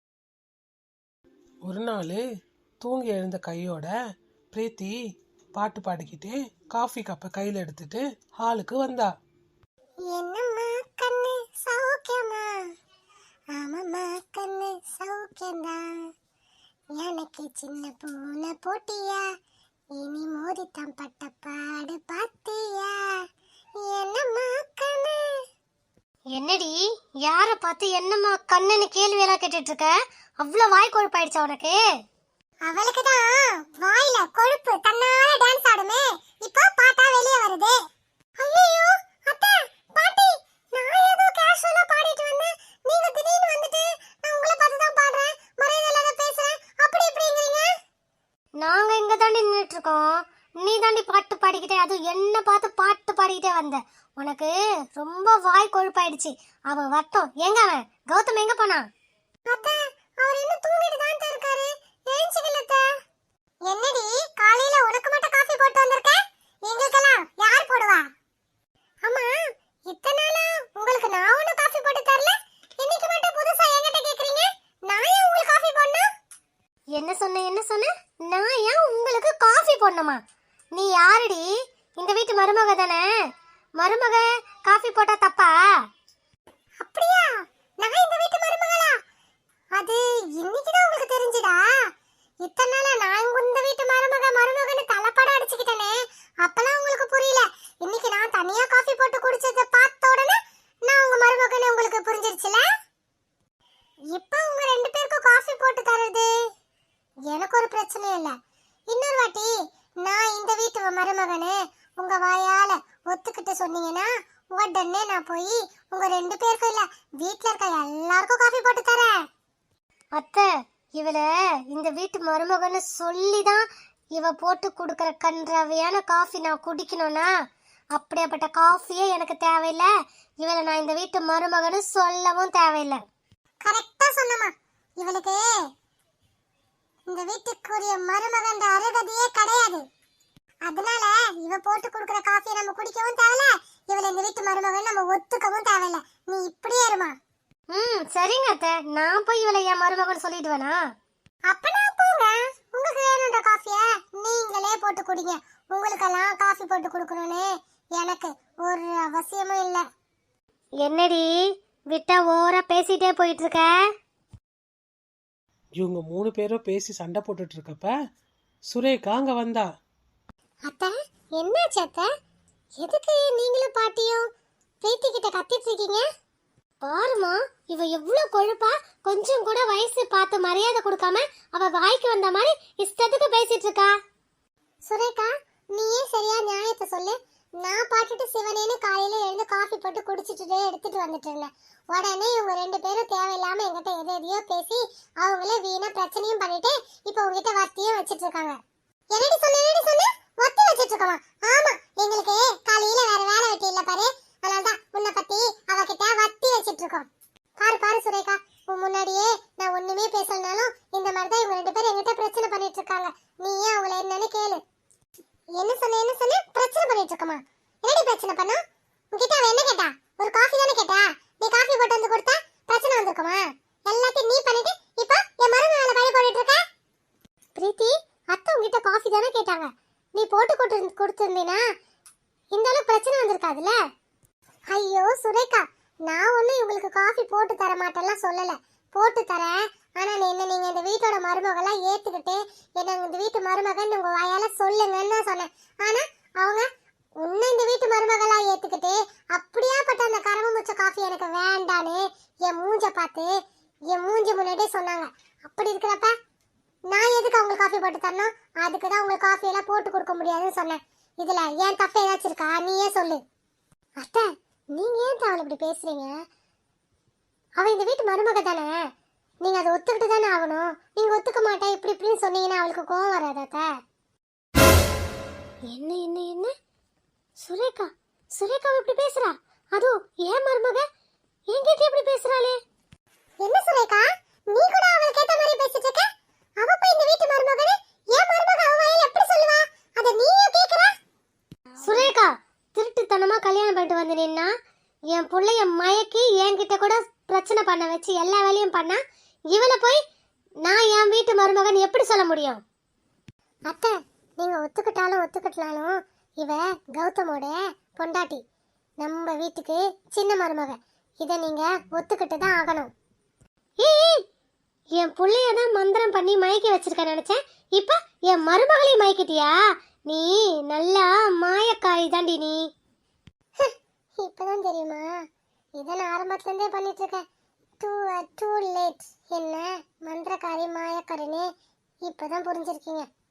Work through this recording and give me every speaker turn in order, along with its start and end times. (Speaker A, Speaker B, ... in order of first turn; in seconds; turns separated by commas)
Speaker A: 1.6-2.2, Speaker A: 2.8-3.9, Speaker A: 4.5-4.9, Speaker A: 5.5-9.1, Speaker B: 10.1-12.5, Speaker B: 13.5-16.0, Speaker B: 16.9-19.2, Speaker B: 20.0-23.1, Speaker B: 23.8-25.3, Speaker C: 26.3-31.8, Speaker B: 32.6-37.8, Speaker B: 38.4-47.7, Speaker C: 48.6-58.8, Speaker B: 59.5-62.8, Speaker B: 63.7-68.0, Speaker B: 69.0-69.3, Speaker B: 69.9-76.0, Speaker C: 76.9-80.2, Speaker C: 80.7-83.0, Speaker C: 83.8-85.5, Speaker B: 86.8-88.9, Speaker B: 89.7-91.6, Speaker B: 92.4-100.3, Speaker B: 100.9-102.6, Speaker B: 104.1-106.3, Speaker B: 107.3-108.3, Speaker B: 108.9-109.5, Speaker B: 110.0-119.1, Speaker C: 120.1-123.6, Speaker C: 124.2-127.3, Speaker C: 127.9-129.9, Speaker C: 130.4-133.0, Speaker B: 133.6-135.4, Speaker B: 137.1-139.8, Speaker B: 140.7-147.1, Speaker C: 147.7-150.8, Speaker B: 151.5-159.8, Speaker C: 160.8-161.3, Speaker C: 161.9-163.7, Speaker A: 165.8-167.9, Speaker A: 168.7-169.6, Speaker B: 170.7-172.1, Speaker B: 172.8-174.2, Speaker B: 174.8-176.0, Speaker C: 176.8-183.9, Speaker B: 184.8-198.6, Speaker B: 199.1-214.6, Speaker B: 215.6-218.6, Speaker B: 219.1-226.6, Speaker B: 227.6-231.6, Speaker B: 232.5-233.7, Speaker B: 234.7-246.7, Speaker B: 247.2-253.3, Speaker B: 253.9-256.1, Speaker B: 256.9-263.2, Speaker B: 264.0-266.1, Speaker B: 267.6-268.8, Speaker B: 269.4-273.7, Speaker C: 275.7-276.5, Speaker C: 277.4-280.8, Speaker C: 281.5-282.6, Speaker B: 283.4-286.0, Speaker B: 286.6-290.9, Speaker C: 291.8-294.5, Speaker C: 295.1-299.0, Speaker C: 299.5-300.0, Speaker C: 300.6-302.6, Speaker B: 303.7-308.4, Speaker B: 309.0-312.9, Speaker C: 313.8-314.2, Speaker C: 315.0-319.5, Speaker C: 320.1-322.6, Speaker B: 323.6-325.1, Speaker B: 325.8-327.2, Speaker B: 327.8-331.5, Speaker B: 332.1-333.1